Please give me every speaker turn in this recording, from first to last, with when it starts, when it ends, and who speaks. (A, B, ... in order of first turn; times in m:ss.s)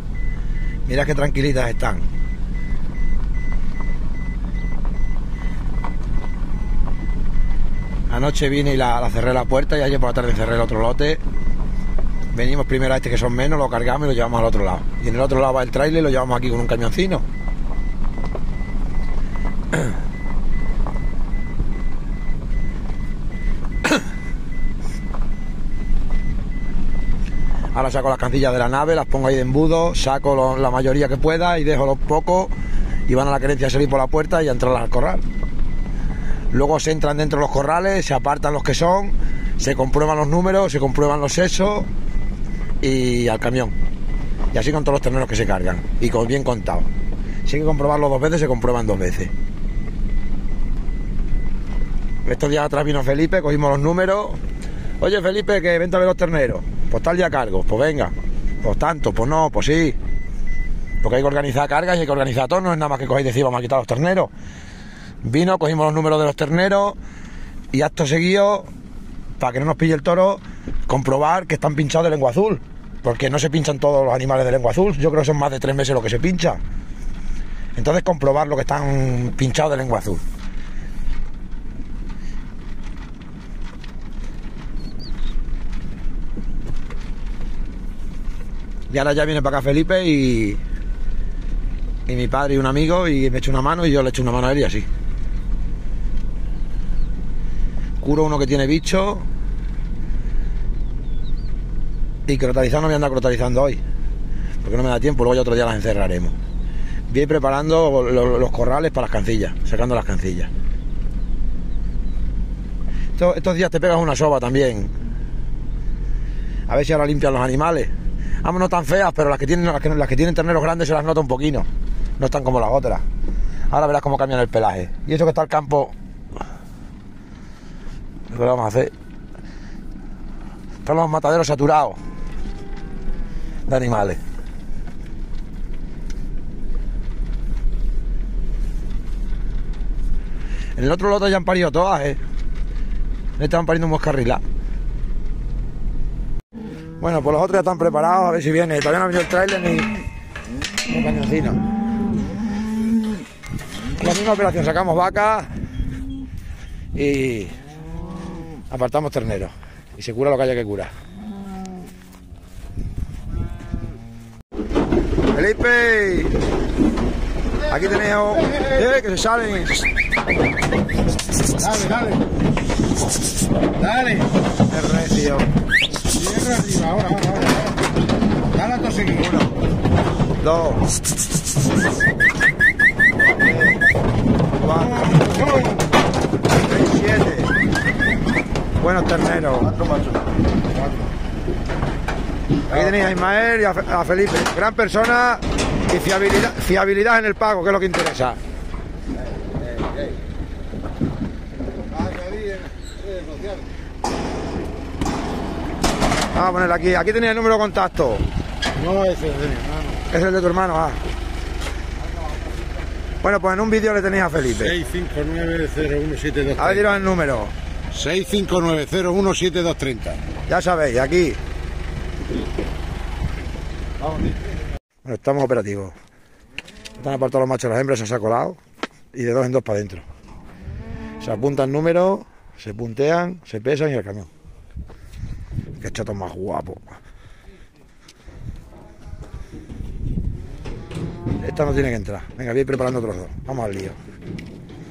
0:00.8-0:02.1 A
0:08.1-0:11.2 A
0:12.3-0:17.2 A
0:27.7-0:32.5 A
0:33.1-0:35.2 A
0:36.5-0:41.9 A
0:42.8-0:43.7 A
0:44.5-0:46.9 A
0:47.4-0:49.3 A
0:52.2-0:54.4 A
0:55.0-1:00.0 A
1:01.0-1:04.3 A
1:05.2-1:07.0 A
1:07.7-1:08.7 A
1:09.4-1:16.6 A
1:17.8-1:20.2 A
1:28.9-1:30.6 A
1:32.1-1:34.9 A
1:38.0-1:39.3 A
1:42.3-1:43.8 A
1:44.6-1:46.3 A
1:47.1-1:50.5 A
1:53.2-1:54.9 A
1:56.7-2:01.7 A
2:02.2-2:03.0 A
2:03.7-2:05.9 A
2:08.3-2:08.9 A
2:10.8-2:12.0 A
2:13.7-2:14.2 A
2:20.8-2:22.2 A
2:23.4-2:24.4 A
2:27.0-2:30.0 A
2:30.9-2:31.7 A
2:34.0-2:35.5 A
2:36.9-2:37.5 A
2:38.7-2:40.9 A
2:45.3-2:46.4 A
2:47.7-2:49.8 A
2:51.6-2:52.1 B
2:53.9-2:54.2 B
2:54.7-2:55.5 A
2:56.2-2:57.5 B
2:58.6-2:59.2 B
3:00.4-3:00.8 A
3:04.6-3:05.4 A
3:06.6-3:07.5 A
3:08.8-3:09.9 A
3:12.7-3:18.4 A
3:22.3-3:22.5 B
3:26.3-3:28.2 A
3:28.8-3:29.8 B
3:30.0-3:31.0 A
3:33.2-3:34.9 A
3:34.9-3:36.5 B
3:36.5-3:37.5 A
3:37.9-3:40.2 B
3:40.5-3:41.4 A
3:45.0-3:45.9 A
3:47.0-3:48.6 A
3:49.1-3:50.0 A
3:51.2-3:54.3 A
3:55.8-3:57.0 A
4:01.4-4:04.0 A